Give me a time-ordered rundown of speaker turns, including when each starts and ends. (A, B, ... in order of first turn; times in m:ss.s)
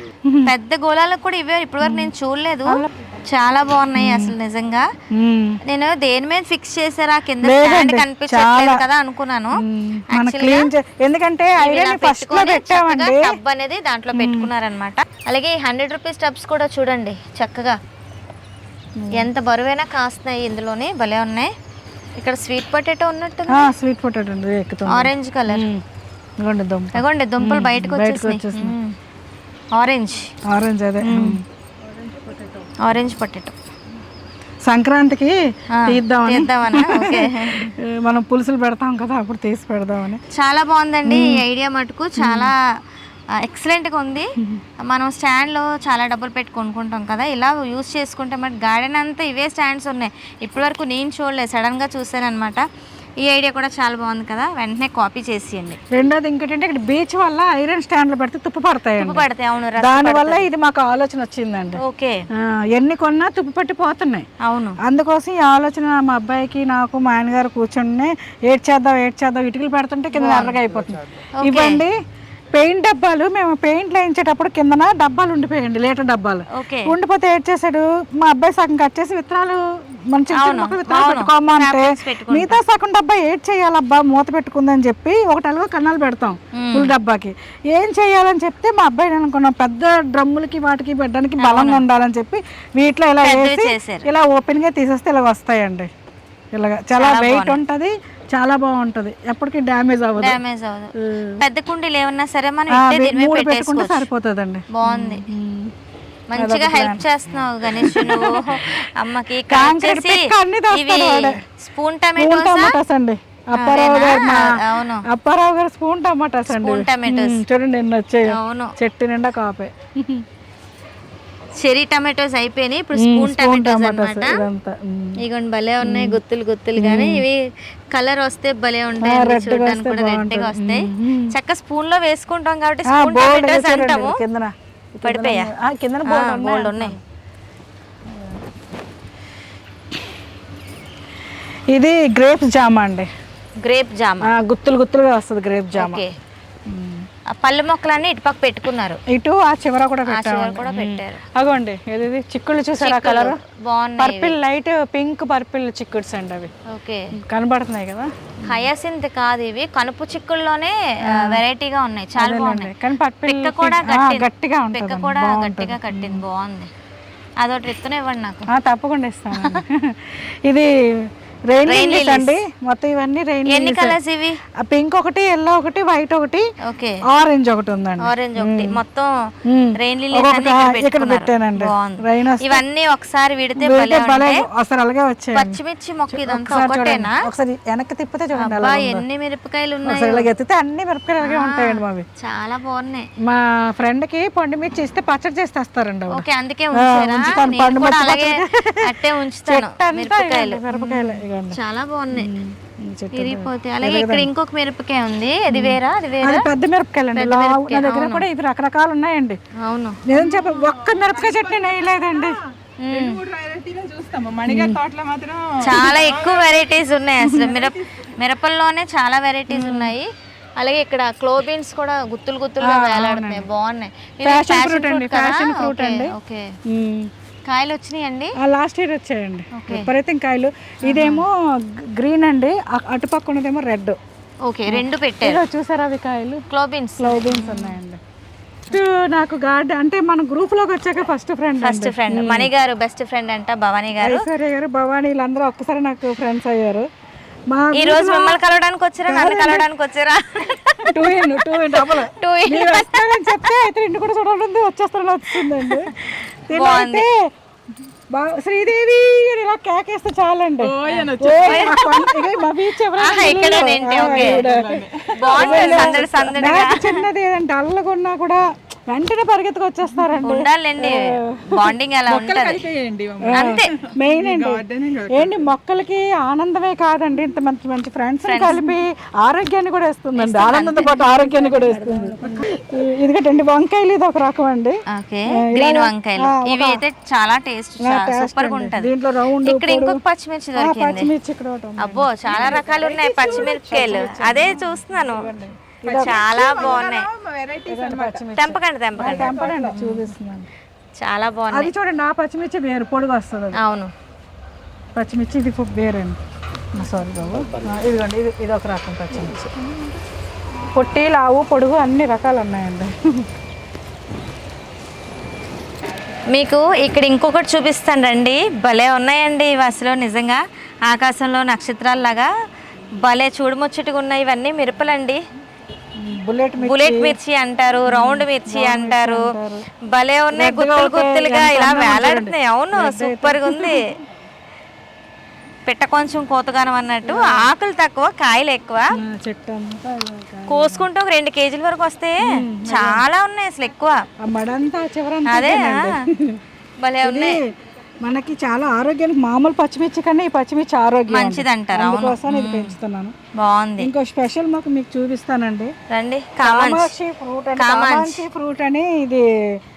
0:00.2-0:00.5 A
0:00.4-0:04.9 B
0:01.8-0:02.1 A
0:04.0-0:04.4 A
0:05.1-0:05.6 A
0:05.6-0:10.7 B
0:07.4-0:08.8 A
0:09.6-0:13.4 A
0:11.6-0:17.8 B
0:14.1-0:14.5 A
0:19.0-0:19.3 A
0:19.1-0:21.5 B
0:22.2-0:23.7 B
0:23.5-0:25.8 A
0:24.9-0:25.7 B
0:26.4-0:28.8 A
0:26.9-0:28.9 B
0:29.8-0:30.3 B
0:30.5-0:31.4 A
0:31.0-0:31.4 B
0:32.8-0:33.5 B
0:34.6-0:40.2 A
0:35.7-0:37.7 B
0:40.3-0:42.5 B
0:41.0-0:41.4 A
0:42.2-0:42.5 A
0:43.4-0:44.3 B
0:44.8-0:52.6 B
0:53.2-0:55.8 B
0:55.9-0:59.3 A
0:59.0-1:00.5 B
0:59.8-1:01.8 A
1:01.8-1:02.2 B
1:02.4-1:04.2 A
1:04.4-1:04.8 B
1:04.8-1:11.9 A
1:10.1-1:10.6 B
1:11.4-1:11.8 B
1:12.5-1:35.9 A
1:16.5-1:16.9 B
1:20.3-1:22.6 B
1:26.5-1:26.9 B
1:31.4-1:31.8 B
1:33.2-1:34.0 B
1:36.5-1:40.4 A
1:36.9-1:37.6 B
1:40.2-1:44.0 B
1:41.0-1:41.4 A
1:42.7-1:45.7 A
1:44.7-1:45.2 B
1:46.3-1:52.8 B
1:46.4-1:47.0 A
1:47.7-1:48.9 A
1:49.5-1:51.4 A
1:52.2-2:00.2 A
1:53.6-1:55.0 B
1:56.5-1:57.4 B
1:58.2-1:58.7 B
2:01.6-2:04.4 B
2:02.9-2:05.2 A
2:05.2-2:14.2 B
2:05.8-2:06.2 A
2:06.8-2:07.2 A
2:09.0-2:11.3 A
2:12.9-2:17.0 A
2:15.0-2:15.5 B
2:16.0-2:17.0 B
2:21.7-2:23.1 A
2:23.6-2:24.3 B
2:24.2-2:26.0 A
2:25.8-2:26.1 B
2:26.7-2:27.0 A
2:27.4-2:29.0 B
2:29.1-2:33.4 A
2:30.0-2:31.2 B
2:32.8-2:34.4 B
2:34.0-2:36.5 A
2:36.7-2:37.1 B
2:37.2-2:38.7 A
2:38.4-2:42.7 B
2:41.1-2:41.4 A
2:42.2-2:46.2 A
2:43.2-2:46.7 B
2:47.4-2:48.5 B
2:48.5-2:54.0 A
2:49.3-2:49.6 B
2:51.6-2:52.3 B
2:53.5-2:54.4 B
2:54.6-2:56.4 A
2:56.6-2:57.0 B
2:57.1-2:58.8 A
2:58.0-3:04.4 B
2:59.5-3:02.6 A
3:03.6-3:05.6 A
3:05.3-3:07.2 B
3:06.1-3:09.0 A
3:08.4-3:10.3 B
3:09.9-3:12.0 A
3:11.2-3:13.0 B
3:13.2-3:21.6 A
3:16.1-3:22.3 B
3:22.1-3:24.3 A
3:23.1-3:26.5 B
3:25.5-3:29.4 A
3:27.2-3:28.2 B
3:29.6-3:30.0 B
3:30.0-3:32.4 A
3:30.4-3:32.3 C
3:32.8-3:33.2 B
3:32.9-3:36.6 C
3:34.4-3:34.8 A
3:35.6-3:46.5 B
3:35.8-3:36.0 A
3:37.3-3:37.7 A
3:39.5-3:39.9 A
3:42.6-3:43.4 A
3:44.2-3:46.1 A
3:46.7-3:47.1 A
3:47.4-3:48.4 B
3:48.4-3:54.0 A
3:49.5-3:49.9 B
3:50.9-3:51.2 B
3:54.4-3:55.4 B
3:54.7-3:56.4 A
3:56.5-3:57.8 B
3:57.0-3:58.0 A
3:58.7-4:02.5 A
4:01.6-4:04.2 B
4:04.0-4:06.9 A
4:07.5-4:08.4 A
4:07.7-4:13.6 B
4:09.0-4:09.7 A
4:10.9-4:17.3 A
4:15.3-4:17.0 B
4:18.1-4:31.8 A
4:20.6-4:21.7 C
4:20.9-4:22.2 B
4:23.0-4:24.4 B
4:24.0-4:25.8 C
4:25.1-4:27.0 B
4:30.2-4:32.6 B
4:32.1-4:33.5 C
4:33.2-4:44.8 A
4:33.4-4:33.8 B
4:34.0-4:35.4 C
4:38.3-4:38.6 B
4:40.2-4:41.1 B
4:44.9-4:51.1 B
4:45.4-4:46.8 A
4:47.8-4:50.0 A
4:50.6-4:56.8 A
4:51.8-4:55.3 B
4:53.0-4:53.4 C
4:55.9-4:58.2 C
4:55.9-4:57.1 B
4:57.7-5:00.5 A
4:58.4-5:00.1 B
4:59.3-4:59.7 C
5:01.0-5:01.7 B
5:01.5-5:03.6 A
5:03.5-5:03.9 B
5:04.9-5:06.2 A
5:06.7-5:09.5 A
5:10.7-5:13.2 A
5:16.3-5:22.3 B
5:23.0-5:25.2 B
5:26.0-5:27.1 A
5:26.6-5:29.3 B
5:27.9-5:29.6 A
5:29.9-5:33.9 B
5:30.3-5:33.9 A
5:35.6-5:38.9 B
5:37.0-5:37.5 A
5:39.0-5:40.9 A
5:40.5-5:44.0 B
5:42.2-5:43.0 A
5:44.2-5:46.4 A
5:45.2-5:46.0 B
5:46.8-5:47.4 B
5:47.0-5:47.5 A
5:48.0-5:53.1 A
5:51.1-5:52.7 B
5:53.4-5:53.9 B
5:53.8-5:55.7 A
5:55.9-5:56.9 B
5:56.4-5:59.2 A
5:57.6-5:58.2 B